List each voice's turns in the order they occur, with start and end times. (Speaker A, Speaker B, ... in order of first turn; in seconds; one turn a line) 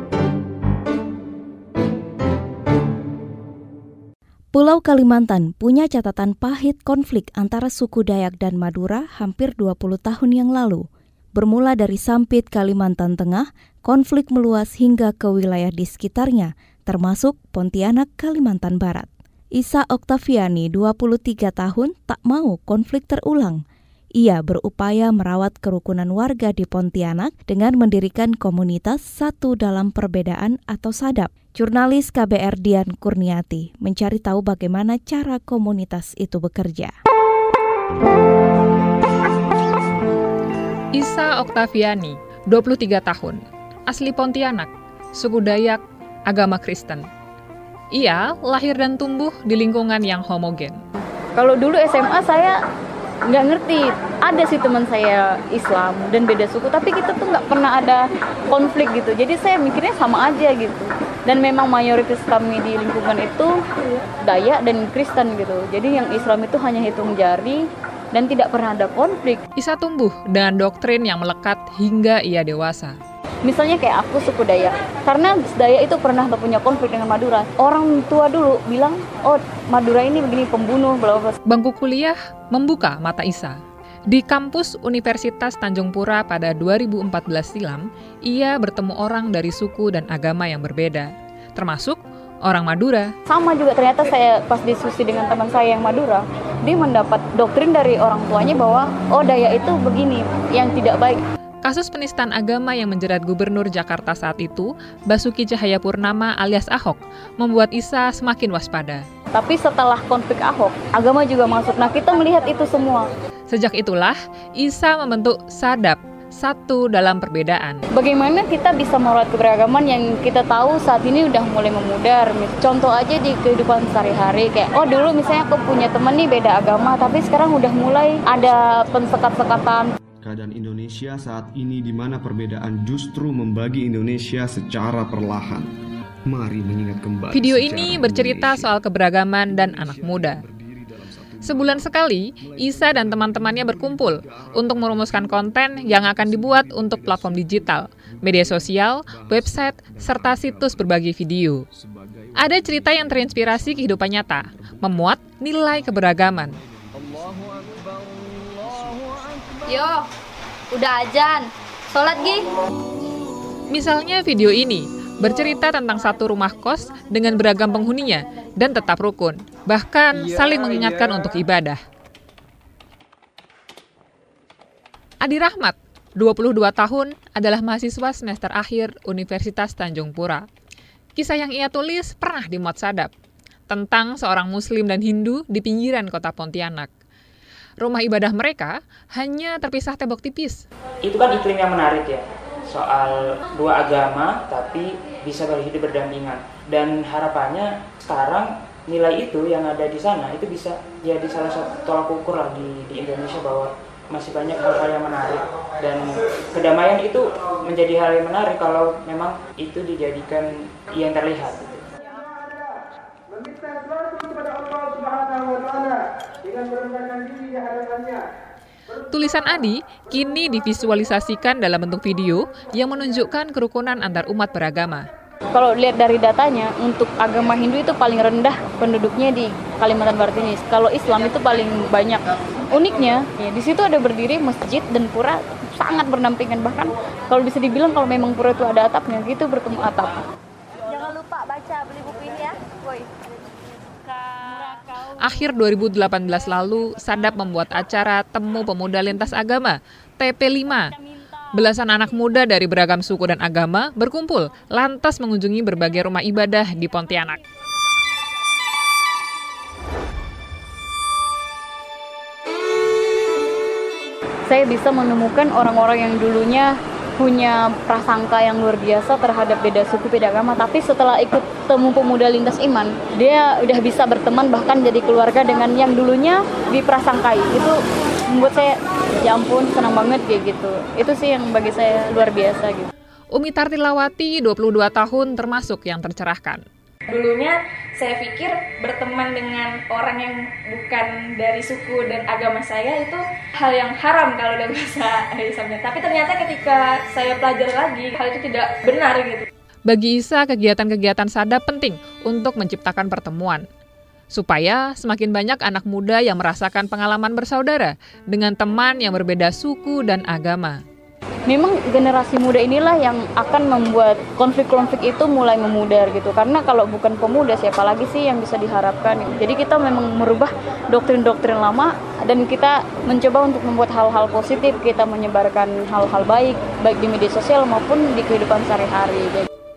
Speaker A: 4.5-10.8
Speaker A: 11.3-23.6
Speaker A: 24.2-36.9
Speaker B: 40.9-47.0
Speaker B: 48.0-50.8
Speaker C: 51.4-52.5
Speaker C: 53.3-63.5
Speaker C: 64.3-67.6
Speaker C: 68.1-69.4
Speaker B: 69.6-73.0
Speaker C: 73.4-81.4
Speaker B: 81.5-83.6
Speaker B: 84.1-93.1
Speaker C: 93.3-101.2
Speaker B: 101.6-109.0
Speaker C: 109.3-113.0
Speaker B: 113.5-117.8
Speaker C: 117.9-129.8
Speaker D: 130.2-135.7
Speaker D: 136.2-138.8
Speaker B: 137.3-140.4
Speaker D: 139.5-141.9
Speaker B: 141.4-151.6
Speaker D: 142.5-150.9
Speaker D: 151.8-155.1
Speaker B: 152.3-156.6
Speaker D: 155.8-159.3
Speaker E: 159.7-160.0
Speaker E: 160.7-162.4
Speaker B: 163.7-171.8
Speaker B: 175.2-180.4
Speaker B: 181.2-183.1
Speaker B: 183.7-186.9
Speaker B: 187.8-190.6
Speaker F: 191.0-211.8
Speaker B: 219.1-225.1
Speaker C: 225.5-240.2
Speaker G: 240.9-243.0
Speaker B: 244.8-250.9
Speaker B: 251.5-257.4
Speaker C: 264.5-277.8
Speaker C: 278.3-282.9
Speaker B: 283.3-286.6
Speaker G: 287.1-299.5
Speaker B: 299.9-303.6
Speaker B: 304.3-310.8
Speaker C: 311.5-329.5